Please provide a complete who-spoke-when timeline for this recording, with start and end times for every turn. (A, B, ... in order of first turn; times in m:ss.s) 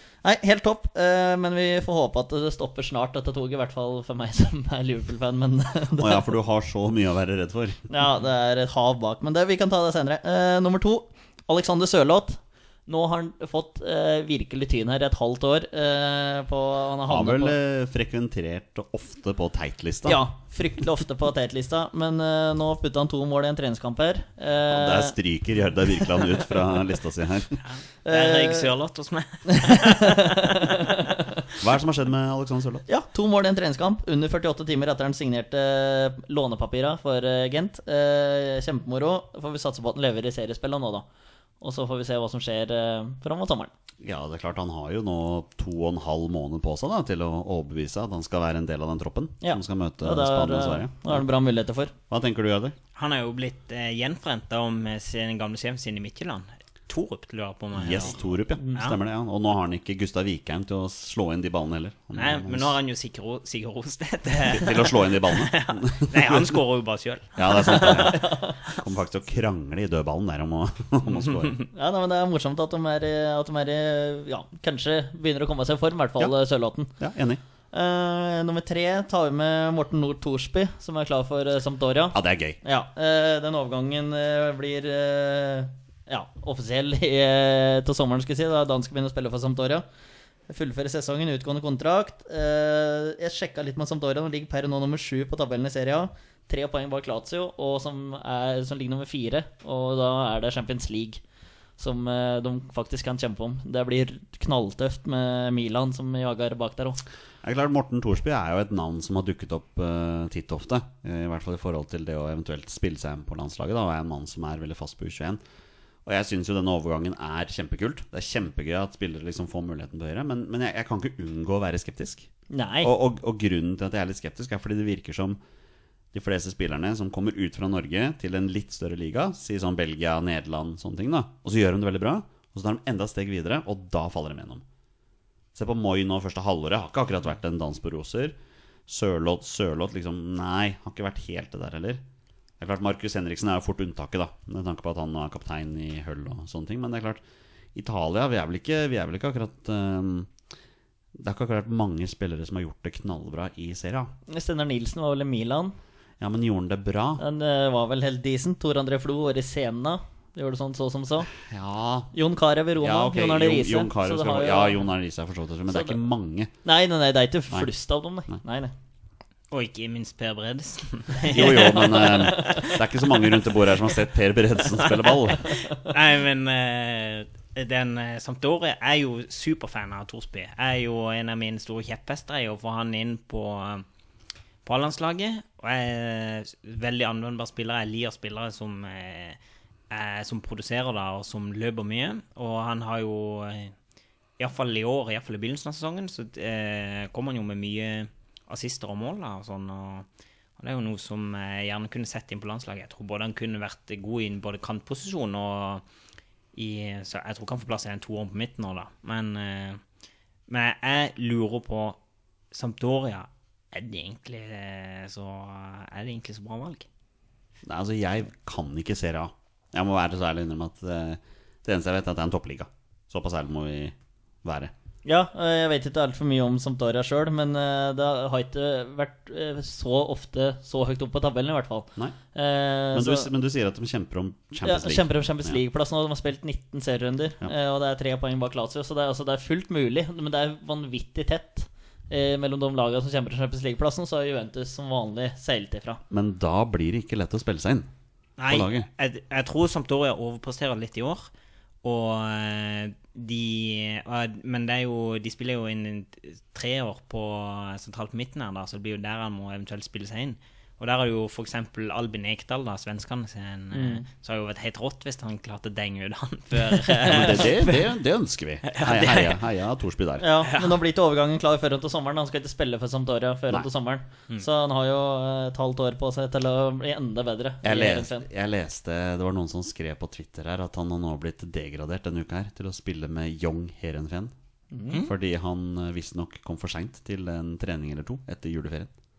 0:00.2-0:06.3 A
0:06.0-0:07.8 B
0:07.9-0:17.6 A
0:17.1-0:20.2 B
0:20.0-0:25.2 A
0:24.7-0:27.6 B
0:27.6-0:30.5 C
0:28.0-0:28.7 A
0:29.5-0:31.4 A
0:31.6-0:32.8 B
0:32.9-0:41.0 A
0:41.6-0:43.7 A
0:44.0-0:51.2 B
0:49.4-0:51.9 A
0:52.1-0:52.8 B
0:52.9-0:58.2 C
0:57.7-1:02.8 B
0:58.6-0:58.9 A
1:02.1-1:08.1 C
1:04.4-1:06.6 B
1:07.4-1:11.6 B
1:07.7-1:08.6 A
1:11.7-1:16.9 A
1:17.0-1:17.4 B
1:17.7-1:29.8 A
1:22.1-1:22.6 B
1:30.5-1:41.2 A
1:41.8-1:47.0 A
1:47.4-1:55.4 B
1:56.0-2:02.3 B
2:02.5-2:02.9 A
2:02.8-2:05.4 B
2:06.1-2:14.6 B
2:15.5-2:18.3 B
2:18.9-2:22.0 B
2:22.6-2:27.2 B
2:27.7-2:30.3 B
2:31.2-2:34.1 B
2:34.3-2:35.7 A
2:36.2-2:37.2 B
2:37.2-2:41.3 A
2:41.3-2:42.1 B
2:42.1-2:44.8 A
2:42.8-2:46.5 B
2:45.7-2:46.0 A
2:46.6-2:48.7 A
2:49.5-2:52.7 C
2:51.3-2:55.5 B
2:51.4-2:52.6 A
2:55.0-3:03.8 C
3:04.6-3:09.4 C
3:09.9-3:13.7 C
3:14.4-3:20.0 C
3:20.6-3:25.8 C
3:26.5-3:29.8 C
3:30.5-3:32.0 C
3:32.5-3:36.8 C
3:37.6-3:44.7 B
3:45.0-3:53.3 A
3:52.9-3:55.6 B
3:54.6-4:06.0 A
4:06.1-4:07.9 B
4:08.4-4:11.3 C
4:08.5-4:08.9 B
4:11.8-4:27.7 C
4:23.7-4:24.0 A
4:26.8-4:27.7 A
4:27.0-4:30.3 B
4:28.7-4:29.4 C
4:30.2-4:38.3 A
4:30.4-4:30.8 C
4:37.6-4:44.3 B
4:44.7-4:45.0 A
4:45.0-4:48.9 B